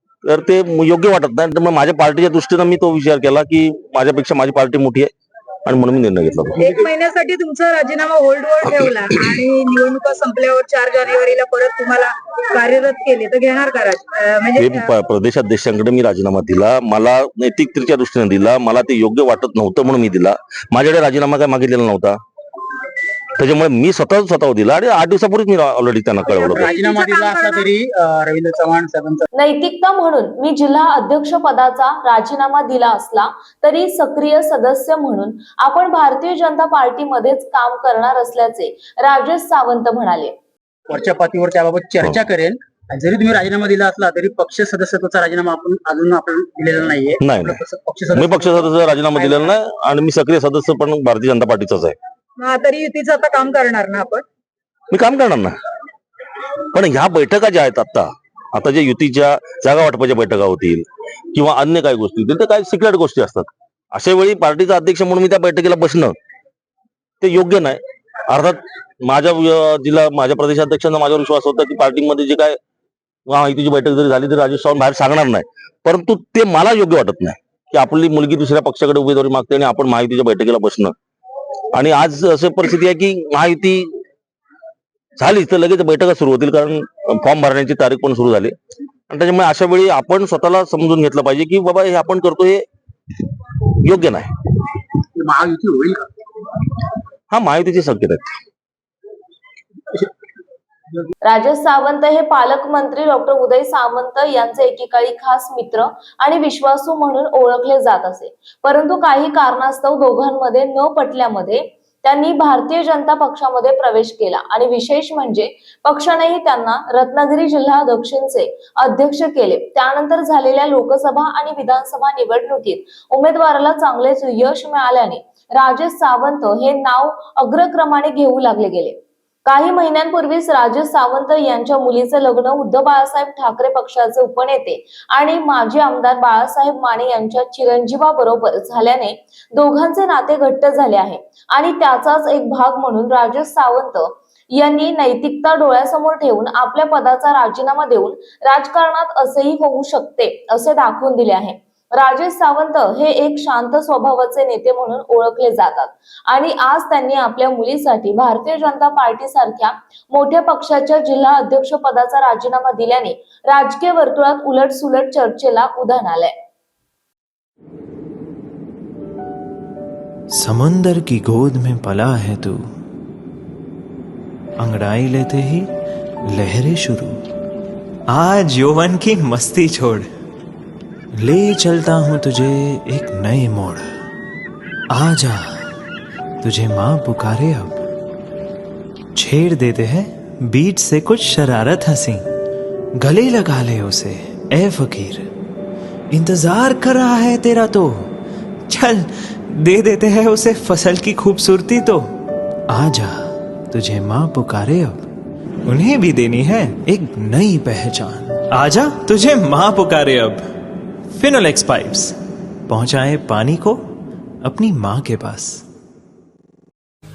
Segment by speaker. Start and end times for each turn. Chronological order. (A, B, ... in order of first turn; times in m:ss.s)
0:00.2-0:05.1 A
0:05.7-0:06.6 A
0:06.6-0:14.9 B
0:14.6-0:22.2 A
0:23.4-0:26.7 A
0:26.3-0:27.7 B
0:26.5-0:29.2 C
0:29.3-0:40.3 D
0:40.9-0:49.5 C
0:47.2-0:47.6 A
0:48.2-0:52.0 A
0:52.4-0:54.2 B
0:54.9-0:55.6 A
0:56.7-1:06.2 A
1:07.2-1:12.6 A
1:13.3-1:20.9 A
1:21.7-1:23.9 A
1:25.2-1:28.5 A
1:29.1-1:32.6 A
1:33.8-1:34.3 A
1:35.2-1:36.1 C
1:37.3-1:38.3 A
1:41.2-2:46.3 D
2:50.3-2:52.6 E
2:54.6-2:55.7 E
2:56.3-2:57.2 E
2:58.1-3:00.1 E
3:01.1-3:03.8 E
3:04.9-3:05.5 E
3:06.4-3:07.8 E
3:09.2-3:12.3 E
3:13.0-3:15.3 E
3:16.1-3:18.1 E
3:18.7-3:22.1 E
3:22.7-3:25.0 E
3:25.7-3:30.4 E
3:31.1-3:32.2 E
3:32.7-3:33.8 E
3:34.4-3:35.6 E